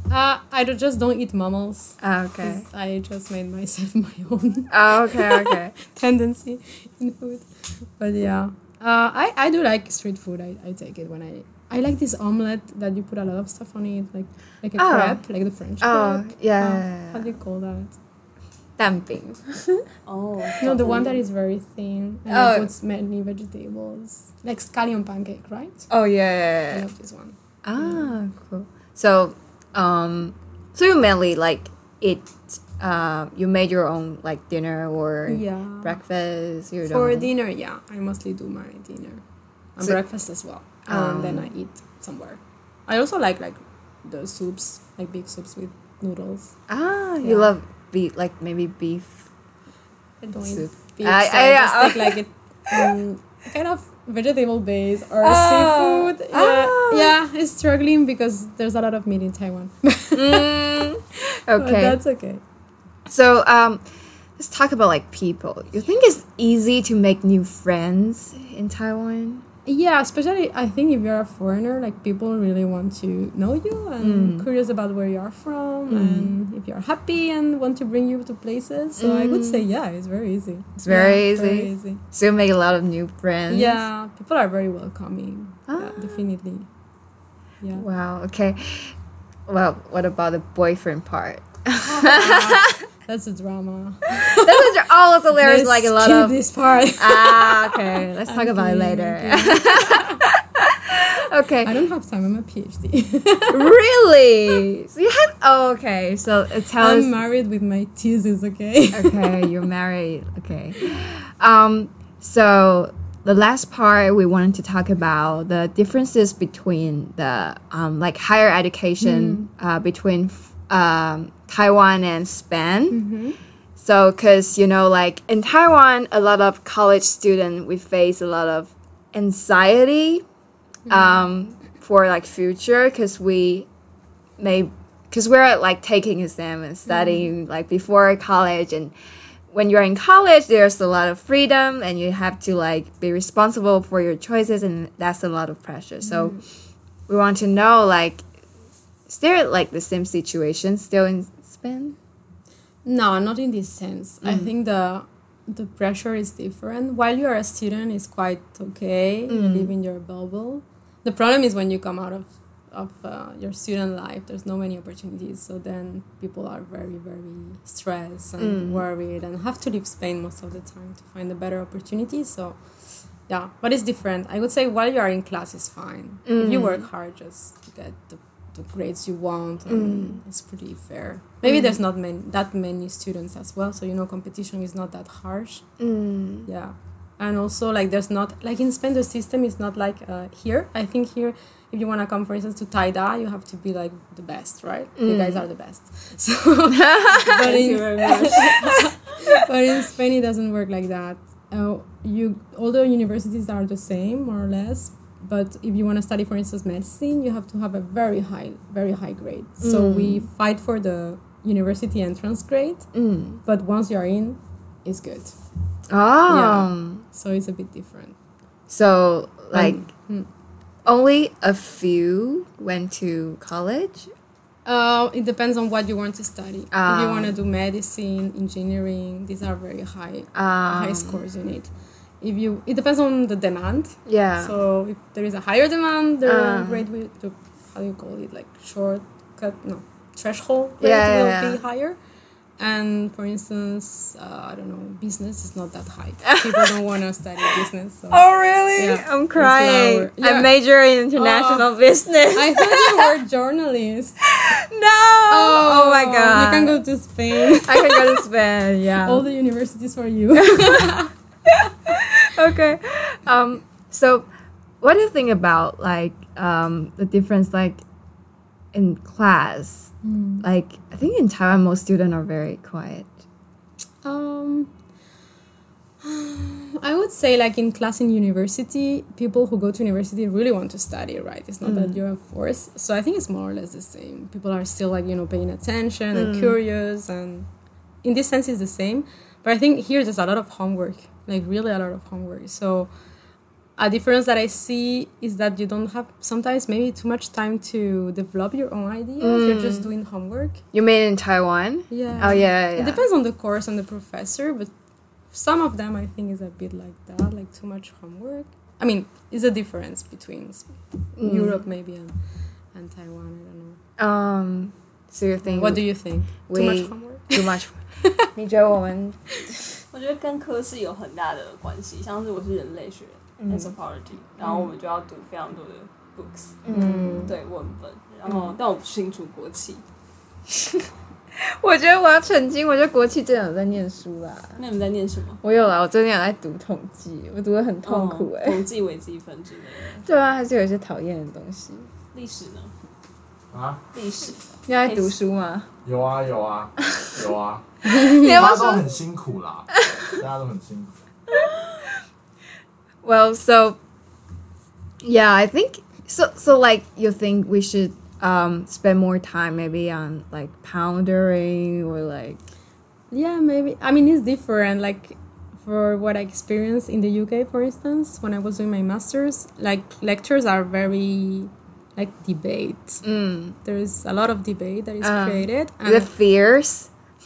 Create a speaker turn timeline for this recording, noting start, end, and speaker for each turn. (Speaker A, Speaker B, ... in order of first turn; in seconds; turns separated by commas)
Speaker A: 0.1-18.0, Speaker B: 2.0-2.6, Speaker B: 4.7-5.7, Speaker B: 14.8-15.2, Speaker B: 15.8-17.4, Speaker B: 18.8-19.9, Speaker C: 20.1-21.2, Speaker A: 20.6-25.9, Speaker B: 22.3-22.7, Speaker B: 25.9-26.9, Speaker A: 26.7-28.1, Speaker B: 27.6-37.3, Speaker A: 35.3-36.0, Speaker A: 36.9-39.2, Speaker A: 39.8-46.5, Speaker B: 40.9-41.5, Speaker B: 46.7-49.3, Speaker A: 47.2-47.5, Speaker A: 50.2-62.4, Speaker B: 50.4-52.2, Speaker B: 55.2-57.2, Speaker B: 60.1-62.0, Speaker B: 63.1-63.8, Speaker B: 64.4-69.5, Speaker A: 69.7-82.0, Speaker B: 74.0-74.5, Speaker B: 75.9-76.4, Speaker B: 79.0-79.7, Speaker B: 80.8-83.8, Speaker A: 83.5-86.7, Speaker B: 85.7-86.2, Speaker B: 87.8-88.9, Speaker B: 89.5-92.8, Speaker A: 91.8-94.7, Speaker B: 94.2-96.4, Speaker A: 95.3-100.3, Speaker B: 97.0-101.7, Speaker A: 101.6-103.7, Speaker B: 103.5-107.1, Speaker A: 106.8-109.5, Speaker B: 108.9-123.0, Speaker A: 119.0-119.5, Speaker A: 122.9-123.4, Speaker B: 123.8-130.2, Speaker A: 130.9-131.2, Speaker B: 130.9-133.7, Speaker B: 134.4-138.9, Speaker A: 136.9-137.3, Speaker B: 139.5-146.4, Speaker A: 146.0-146.4, Speaker B: 147.1-148.2, Speaker B: 149.1-152.0, Speaker A: 152.8-172.6, Speaker B: 154.2-154.5, Speaker B: 159.3-159.7, Speaker B: 168.4-168.8, Speaker A: 173.3-185.7, Speaker B: 176.3-176.9, Speaker B: 179.7-180.2, Speaker B: 181.4-181.8, Speaker B: 185.8-186.5, Speaker A: 186.5-212.9, Speaker B: 195.0-195.4, Speaker B: 196.7-198.8, Speaker C: 197.2-198.9, Speaker B: 209.6-210.3, Speaker B: 212.9-213.4, Speaker A: 213.4-215.4, Speaker B: 215.9-217.0, Speaker A: 216.3-218.2, Speaker B: 218.7-219.9, Speaker A: 219.5-220.3, Speaker B: 220.8-224.1, Speaker A: 224.7-231.7, Speaker B: 226.7-227.4, Speaker B: 230.3-231.2, Speaker A: 232.2-242.0, Speaker B: 234.1-234.6, Speaker B: 236.2-236.9, Speaker B: 240.8-241.6, Speaker A: 242.6-250.5, Speaker B: 246.2-246.8, Speaker B: 248.1-253.1, Speaker A: 251.2-251.7, Speaker A: 252.3-254.3, Speaker B: 254.2-256.8, Speaker A: 255.3-258.2, Speaker B: 257.5-259.3, Speaker A: 259.0-261.1, Speaker B: 260.4-264.3, Speaker B: 264.8-267.8, Speaker B: 268.7-273.1, Speaker A: 270.0-270.5, Speaker A: 274.0-274.7, Speaker A: 276.0-287.5, Speaker B: 281.6-282.0, Speaker B: 286.1-286.6, Speaker A: 288.0-292.9, Speaker A: 293.8-300.6, Speaker B: 299.2-299.9, Speaker B: 300.7-303.0, Speaker A: 301.9-304.7, Speaker A: 305.3-312.2, Speaker B: 311.2-311.6, Speaker A: 312.7-313.8, Speaker B: 314.0-315.9, Speaker A: 315.4-317.5, Speaker B: 316.5-317.8, Speaker B: 318.3-319.8, Speaker C: 319.9-326.6, Speaker B: 323.4-323.8, Speaker B: 324.4-324.7, Speaker B: 326.6-327.3, Speaker A: 326.7-327.3, Speaker C: 327.2-329.8, Speaker B: 328.3-328.6, Speaker B: 330.5-334.6, Speaker C: 334.6-335.4, Speaker B: 335.4-338.6, Speaker C: 337.8-340.1, Speaker B: 340.0-341.9, Speaker C: 342.1-342.7, Speaker D: 343.5-343.8, Speaker C: 343.9-345.1, Speaker B: 344.7-345.7, Speaker D: 345.9-350.9, Speaker B: 346.9-347.1, Speaker A: 347.9-348.4, Speaker B: 347.9-349.0, Speaker B: 353.0-353.8, Speaker B: 355.0-362.4, Speaker A: 363.1-373.1, Speaker B: 373.0-373.6, Speaker A: 373.6-376.1, Speaker B: 375.0-376.9